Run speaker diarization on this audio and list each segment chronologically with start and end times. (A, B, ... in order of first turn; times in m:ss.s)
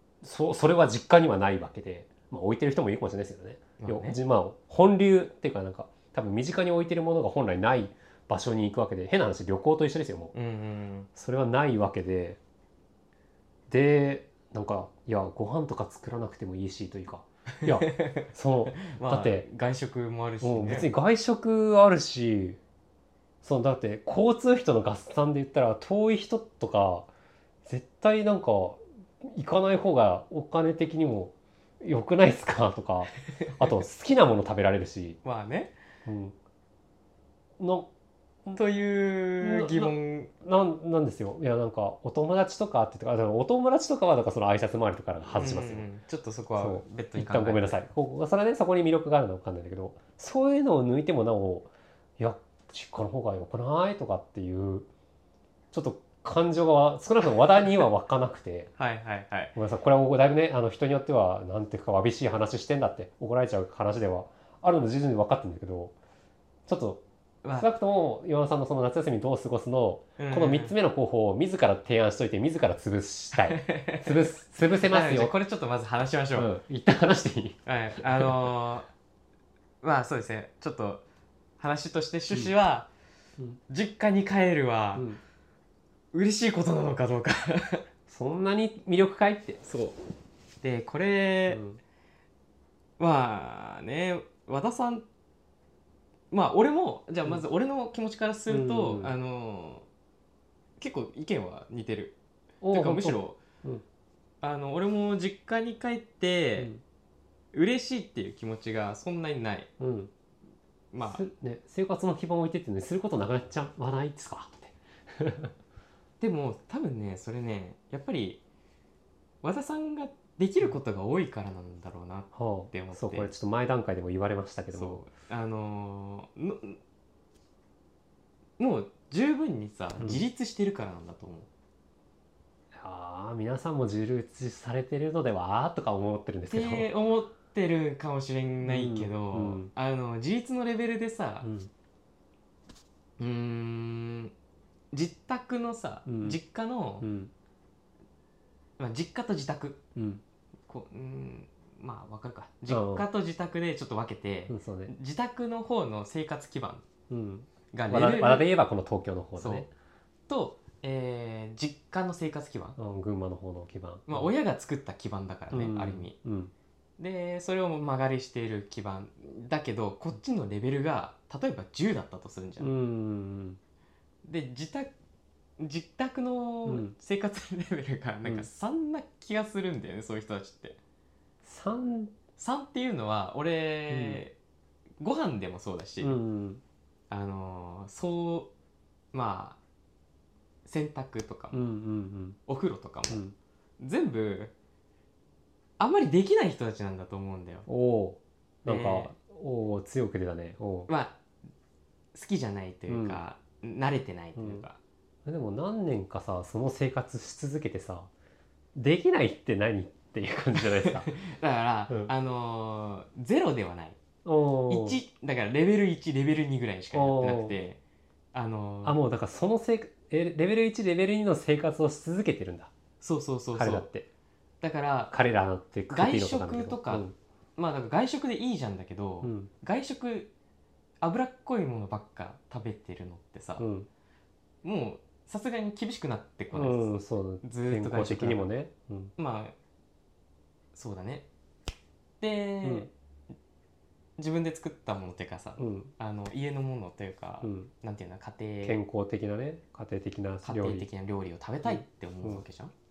0:00.2-0:10.3 A
0:03.8-0:04.2 B
0:10.3-0:11.1 B
0:11.2-0:12.4 A
0:13.7-0:19.4 A
0:17.6-0:20.9 B
0:20.4-0:22.6 A
0:23.4-0:27.1 A
0:27.6-0:35.2 A
0:33.3-0:33.8 B
0:35.2-0:35.7 B
0:36.0-0:36.3 A
0:37.6-0:37.9 A
0:38.5-0:40.3 B
0:39.4-0:45.9 A
0:45.3-0:47.8 B
0:46.6-0:54.9 A
0:55.7-0:58.7 A
0:58.8-0:59.5 B
0:59.6-1:05.9 A
1:06.7-1:15.3 A
1:10.2-1:10.7 B
1:13.3-1:16.5 B
1:16.3-1:18.4 A
1:17.6-1:18.9 B
1:19.8-1:21.0 B
1:21.6-1:22.9 B
1:23.7-1:25.0 B
1:24.9-1:25.2 A
1:26.1-1:27.8 B
1:28.1-1:29.6 A
1:29.6-1:30.0 B
1:30.6-1:31.6 B
1:31.5-1:31.8 A
1:33.0-1:35.0 B
1:36.3-1:39.8 B
1:38.5-1:39.1 A
1:40.8-1:42.1 B
1:42.6-1:43.8 A
1:42.7-1:43.4 B
1:44.4-1:46.7 B
1:47.5-1:49.7 B
1:49.8-1:50.1 A
1:50.9-1:51.2 B
1:51.0-1:55.5 A
1:56.2-1:58.4 B
1:59.4-2:03.3 B
2:02.3-2:05.0 A
2:04.7-2:06.8 B
2:08.6-2:11.5 B
2:10.0-2:10.2 A
2:12.7-2:16.9 A
2:16.5-2:21.5 B
2:18.6-2:19.7 A
2:21.4-2:21.7 A
2:23.2-2:24.3 B
2:24.9-2:27.0 B
2:26.0-2:26.4 A
2:27.0-2:27.3 A
2:28.8-2:29.8 B
2:30.0-2:30.2 A
2:30.7-2:36.8 B
2:32.7-2:33.0 A
2:34.5-2:34.9 A
2:37.1-2:39.7 A
2:37.7-2:38.5 B
2:39.4-2:39.6 B
2:40.3-2:42.8 B
2:42.8-2:44.3 A
2:44.1-2:46.1 B
2:45.5-2:46.5 A
2:47.0-2:52.7 B
2:52.6-2:53.6 A
2:54.2-2:54.9 B
2:55.6-3:00.8 B
2:56.6-2:56.9 A
3:01.4-3:02.1 A
3:02.4-3:04.3 B
3:03.9-3:04.2 A
3:05.0-3:06.2 B
3:06.0-3:06.6 A
3:07.1-3:08.5 B
3:09.1-3:09.6 B
3:10.6-3:11.6 B
3:11.5-3:12.4 A
3:12.4-3:13.2 B
3:13.1-3:13.3 A
3:13.8-3:14.5 B
3:15.8-3:17.6 B
3:17.7-3:20.9 A
3:18.6-3:19.1 B
3:20.9-3:21.2 B
3:22.1-3:24.8 B
3:22.9-3:23.2 A
3:24.4-3:24.7 A
3:25.2-3:28.1 A
3:28.7-3:31.1 A
3:30.6-3:34.0 B
3:34.2-3:35.0 A
3:34.7-3:37.8 B
3:36.9-3:37.6 A
3:38.3-3:39.0 B
3:38.8-3:42.7 A
3:43.0-3:43.8 B
3:43.5-3:44.1 A
3:44.6-3:45.1 B
3:45.1-3:47.1 A
3:45.9-3:50.3 B
3:49.2-3:49.5 A
3:51.0-3:53.6 B
3:53.6-3:53.9 A
3:54.6-3:56.9 B
3:56.5-3:59.1 A
3:57.4-3:58.5 B
3:59.2-3:59.5 B
4:00.7-4:01.2 B
4:02.2-4:02.9 B
4:02.6-4:02.9 A
4:04.2-4:08.8 B
4:05.6-4:05.9 A
4:07.4-4:07.7 A
4:08.6-4:10.8 A
4:10.4-4:12.7 B
4:11.6-4:12.4 A